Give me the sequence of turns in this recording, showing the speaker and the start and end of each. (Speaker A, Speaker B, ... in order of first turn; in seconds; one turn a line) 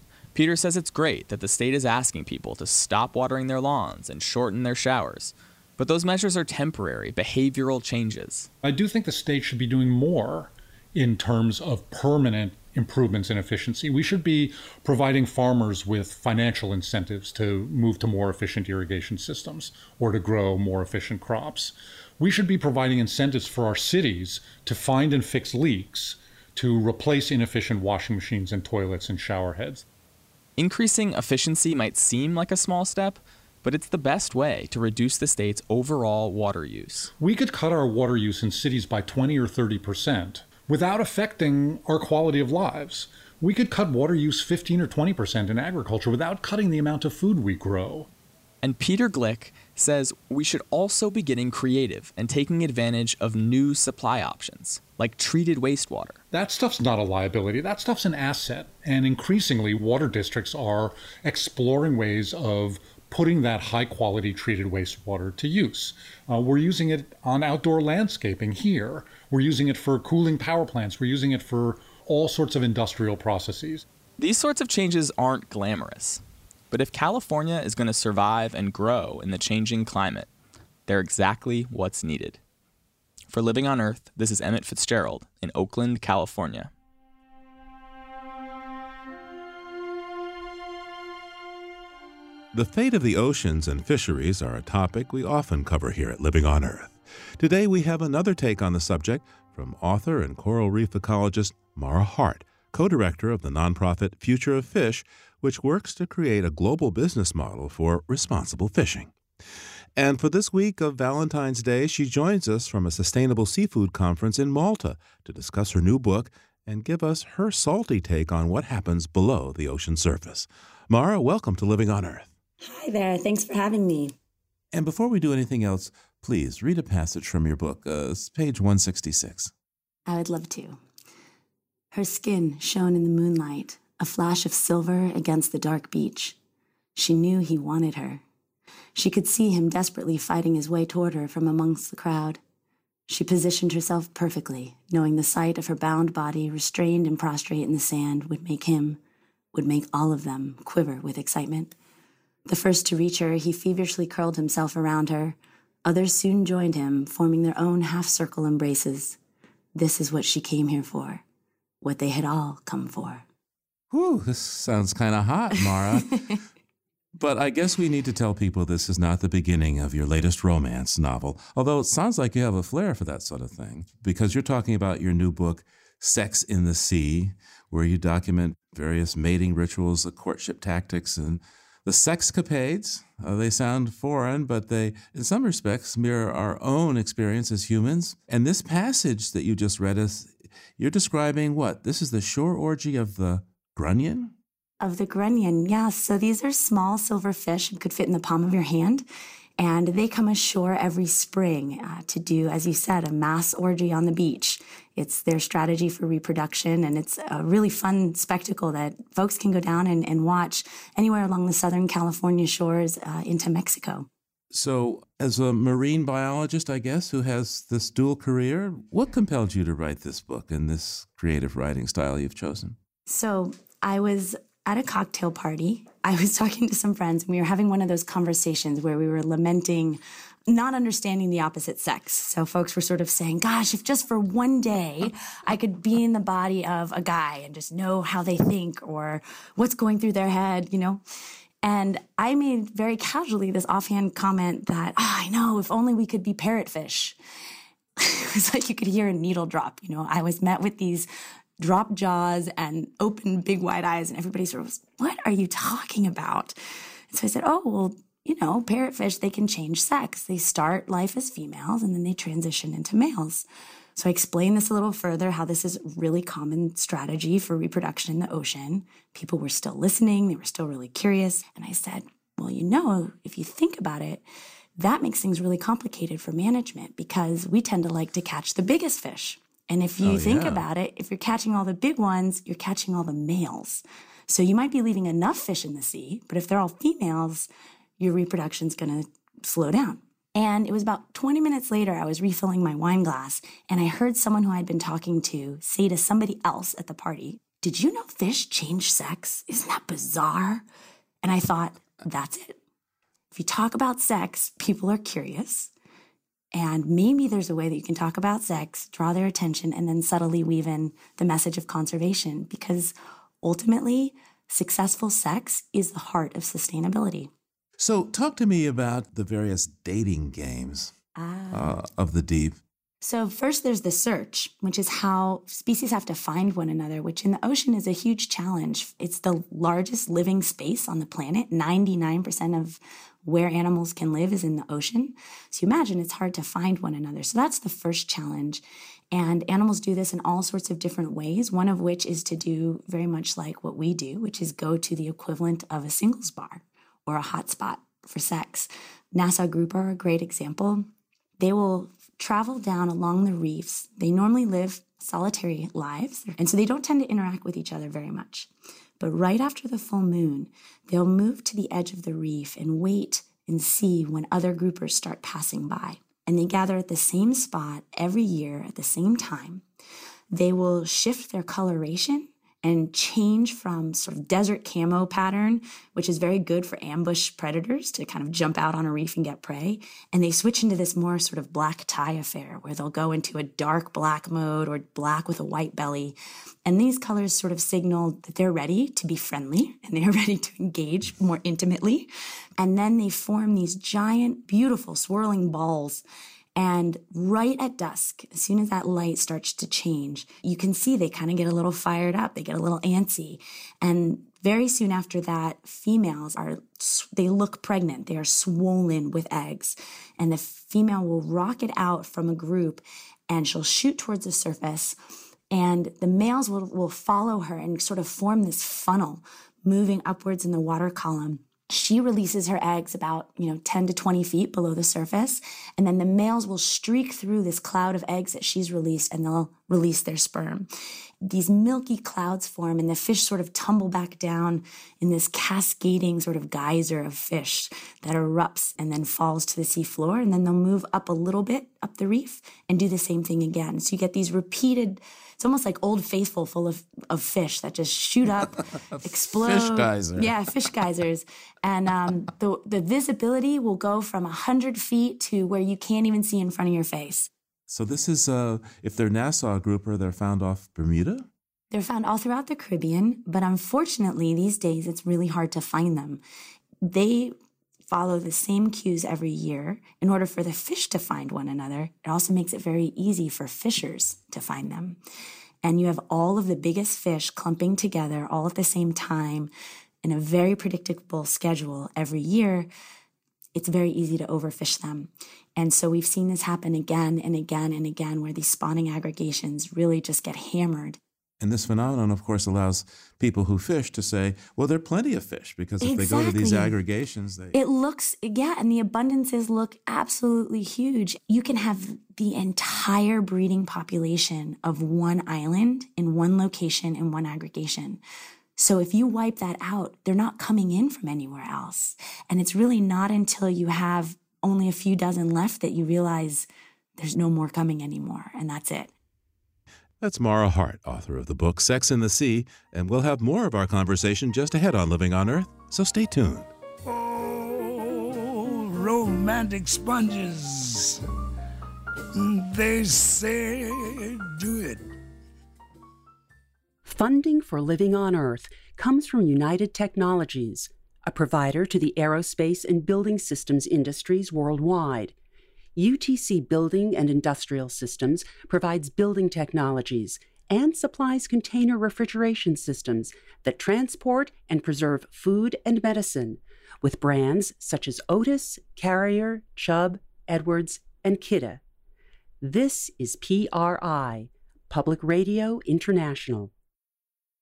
Speaker A: 0.3-8.5
Speaker B: 8.6-29.8
Speaker A: 30.6-37.1
Speaker B: 37.2-48.1
Speaker A: 48.6-56.2
Speaker B: 56.3-73.8
Speaker A: 74.2-80.3
Speaker A: 80.9-82.4
Speaker A: 83.3-86.7
Speaker C: 92.5-109.1
Speaker C: 110.0-122.3
Speaker D: 122.6-124.1
Speaker C: 124.7-129.5
Speaker D: 130.1-130.8
Speaker D: 131.9-136.4
Speaker D: 136.9-138.2
Speaker D: 138.9-142.4
Speaker D: 143.1-149.0
Speaker D: 149.5-151.7
Speaker D: 152.4-159.2
Speaker D: 159.7-161.2
Speaker D: 161.8-163.2
Speaker C: 163.9-166.2
Speaker D: 165.7-166.1
Speaker C: 167.1-194.3
Speaker D: 194.8-199.1
Speaker D: 199.6-214.1
Speaker C: 214.5-222.8
Speaker D: 223.1-241.0
Speaker D: 241.6-247.2
Speaker D: 248.0-251.1
Speaker D: 251.6-256.6
Speaker D: 257.1-274.2
Speaker D: 274.8-300.6
Speaker C: 280.0-280.6
Speaker D: 301.2-302.6
Speaker D: 303.3-305.7
Speaker D: 306.5-317.3
Speaker C: 317.8-320.9
Speaker D: 321.1-321.8
Speaker C: 321.5-322.6
Speaker D: 323.0-350.9
Speaker D: 351.4-369.6
Speaker D: 370.3-396.0
Speaker D: 396.6-415.0
Speaker D: 415.5-430.7
Speaker D: 431.2-457.3
Speaker C: 448.9-450.3
Speaker C: 457.7-461.3
Speaker D: 461.7-466.2
Speaker D: 466.8-467.3
Speaker D: 467.9-475.0
Speaker D: 475.6-479.5
Speaker D: 480.0-482.7
Speaker D: 483.5-491.0
Speaker C: 491.4-497.6
Speaker D: 495.8-496.7
Speaker D: 497.5-508.0
Speaker D: 508.6-518.9
Speaker C: 520.0-526.5
Speaker E: 526.9-531.0
Speaker E: 532.1-534.8
Speaker F: 536.9-545.1
Speaker F: 545.8-561.6
Speaker F: 562.4-566.5